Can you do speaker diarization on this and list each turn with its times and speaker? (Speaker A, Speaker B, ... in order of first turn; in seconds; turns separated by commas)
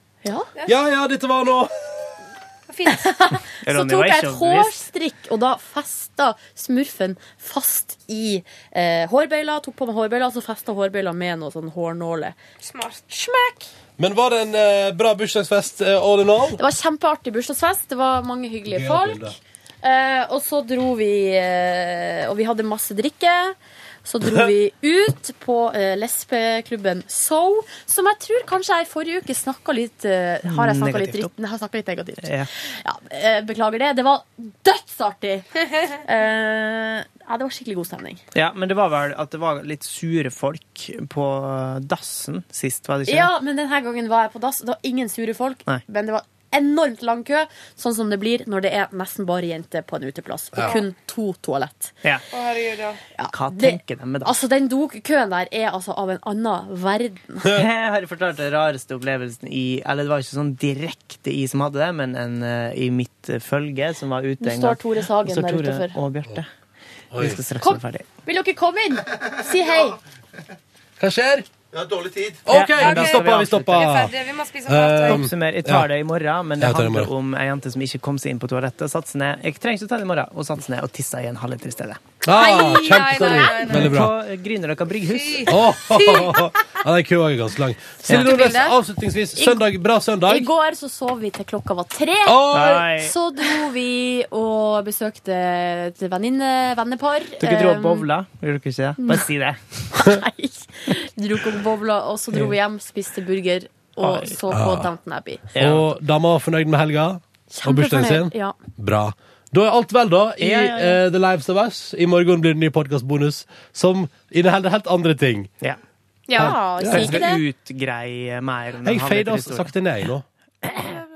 Speaker A: 0.2-0.5, Speaker B: 0.5-0.8, Speaker C: 0.7-2.2, Speaker B: 2.7-3.1, Speaker A: 2.9-12.3, Speaker D: 3.6-4.8, Speaker B: 12.6-13.0, Speaker A: 13.1-13.7, Speaker C: 14.0-16.6, Speaker A: 16.6-38.2, Speaker C: 18.7-19.4, Speaker D: 30.5-31.3, Speaker D: 32.2-32.5, Speaker D: 38.3-43.3, Speaker A: 43.1-51.9, Speaker B: 52.3-53.0, Speaker A: 53.1-57.5, Speaker D: 53.3-54.3, Speaker D: 57.5-66.5, Speaker A: 64.4-65.9, Speaker C: 67.1-67.4, Speaker D: 67.2-68.0, Speaker A: 67.6-70.0, Speaker C: 71.0-74.1, Speaker D: 72.5-73.9, Speaker B: 72.8-75.2, Speaker C: 74.7-75.9, Speaker D: 75.1-82.0, Speaker C: 76.6-77.1, Speaker C: 82.2-84.1, Speaker B: 82.3-83.9, Speaker A: 82.4-83.7, Speaker D: 83.7-85.5, Speaker B: 85.1-86.4, Speaker C: 85.5-90.5, Speaker A: 88.0-88.8, Speaker B: 88.2-88.7, Speaker A: 90.3-98.1, Speaker C: 92.2-92.8, Speaker D: 92.5-93.1, Speaker D: 97.4-99.6, Speaker A: 99.9-105.5, Speaker D: 104.0-104.4, Speaker C: 104.5-104.9, Speaker D: 105.5-105.8, Speaker C: 105.6-115.5, Speaker A: 107.5-108.6, Speaker D: 110.4-111.0, Speaker B: 116.3-116.5, Speaker A: 116.3-117.4, Speaker C: 116.4-117.2, Speaker D: 116.9-119.7, Speaker C: 118.8-120.2